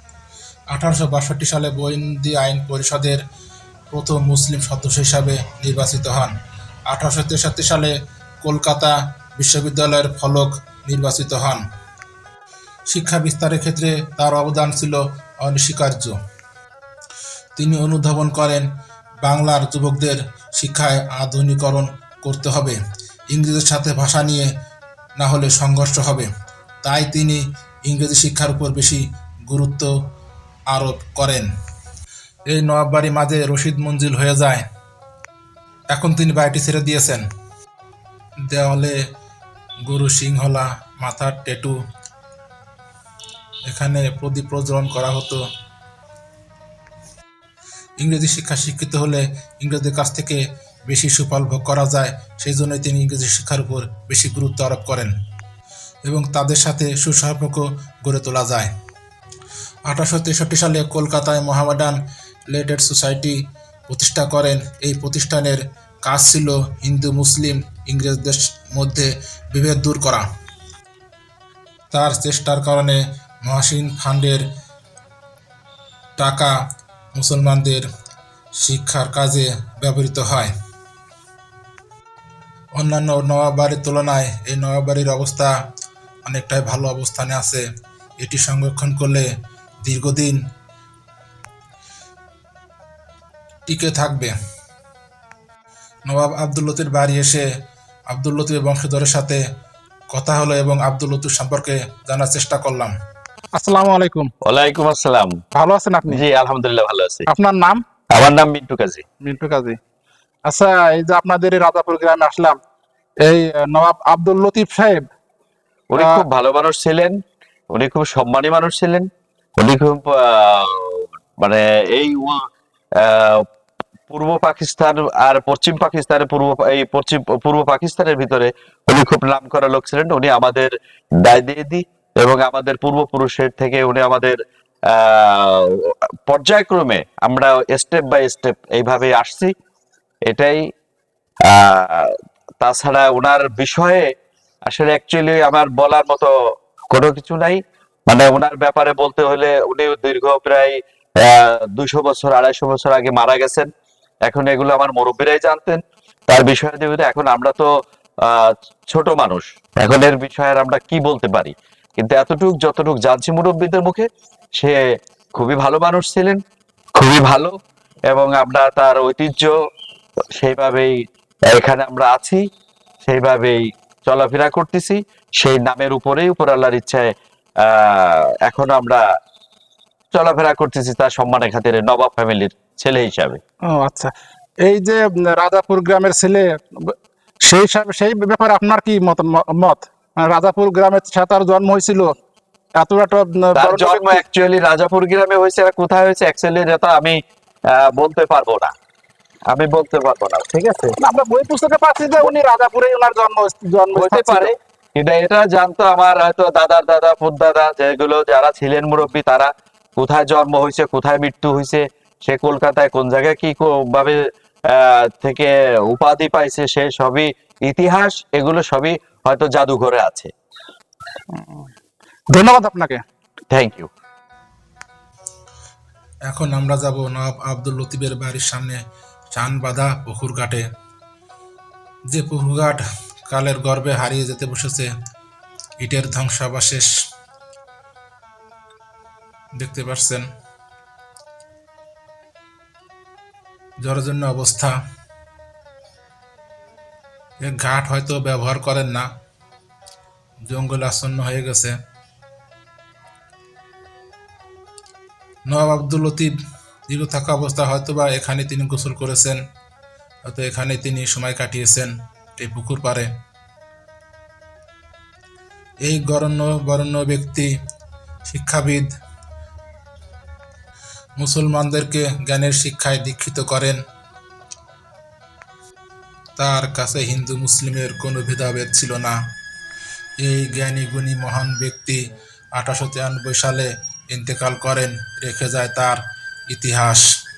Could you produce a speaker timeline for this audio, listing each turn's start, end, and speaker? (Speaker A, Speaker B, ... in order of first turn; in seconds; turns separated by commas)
Speaker A: 0.7-3.2, Speaker A: 3.9-6.3, Speaker A: 6.9-11.6, Speaker A: 12.9-16.2, Speaker A: 17.6-18.7, Speaker A: 19.2-22.8, Speaker A: 23.3-24.5, Speaker A: 25.2-26.3, Speaker A: 26.8-29.9, Speaker A: 30.7-31.5, Speaker A: 32.5-34.6, Speaker A: 35.9-37.2, Speaker A: 38.5-39.0, Speaker A: 39.9-41.8, Speaker A: 43.7-45.4, Speaker A: 48.0-55.1, Speaker A: 56.0-58.7, Speaker A: 59.9-62.0, Speaker A: 62.5-70.2, Speaker A: 71.9-74.4, Speaker A: 76.2-76.5, Speaker A: 77.1-77.9, Speaker A: 78.6-80.5, Speaker A: 82.8-85.5, Speaker A: 86.2-87.6, Speaker A: 88.2-89.3, Speaker A: 89.8-90.4, Speaker A: 93.7-94.3, Speaker A: 96.1-97.5, Speaker A: 98.1-99.4, Speaker A: 100.1-102.9, Speaker B: 103.5-104.3, Speaker C: 104.4-105.3, Speaker B: 105.6-106.2, Speaker C: 106.1-107.3, Speaker B: 107.3-107.8, Speaker C: 108.1-109.0, Speaker B: 109.2-109.8, Speaker B: 110.5-112.6, Speaker B: 113.2-115.1, Speaker C: 115.9-117.2, Speaker C: 117.7-119.1, Speaker C: 119.6-122.4, Speaker C: 123.0-123.4, Speaker C: 124.1-134.4, Speaker C: 134.9-139.5, Speaker C: 140.3-140.6, Speaker C: 141.4-144.1, Speaker C: 144.7-146.3, Speaker C: 146.9-153.7, Speaker C: 154.3-157.7, Speaker C: 158.2-164.8, Speaker C: 165.4-166.4, Speaker C: 167.0-167.5, Speaker C: 168.1-169.5, Speaker C: 170.4-171.0, Speaker C: 171.5-172.4, Speaker C: 173.0-179.0, Speaker C: 180.1-183.4, Speaker B: 183.7-184.1, Speaker B: 184.6-192.2, Speaker B: 192.8-194.2, Speaker C: 193.5-197.2, Speaker C: 197.7-198.7, Speaker C: 199.5-201.0, Speaker B: 201.0-204.5, Speaker C: 203.9-220.3, Speaker B: 221.3-221.7, Speaker B: 222.3-223.0, Speaker C: 223.5-223.9, Speaker A: 226.3-228.8, Speaker A: 229.3-230.7, Speaker A: 232.1-234.9, Speaker A: 235.8-236.9, Speaker A: 239.6-240.3, Speaker A: 243.8-244.7, Speaker A: 247.4-249.1, Speaker A: 250.5-251.8, Speaker A: 255.5-256.3, Speaker A: 256.9-259.4, Speaker A: 260.2-263.1, Speaker A: 265.9-267.5, Speaker A: 268.3-268.9, Speaker A: 271.2-273.8, Speaker A: 276.4-279.1, Speaker A: 280.2-282.0, Speaker A: 282.6-287.1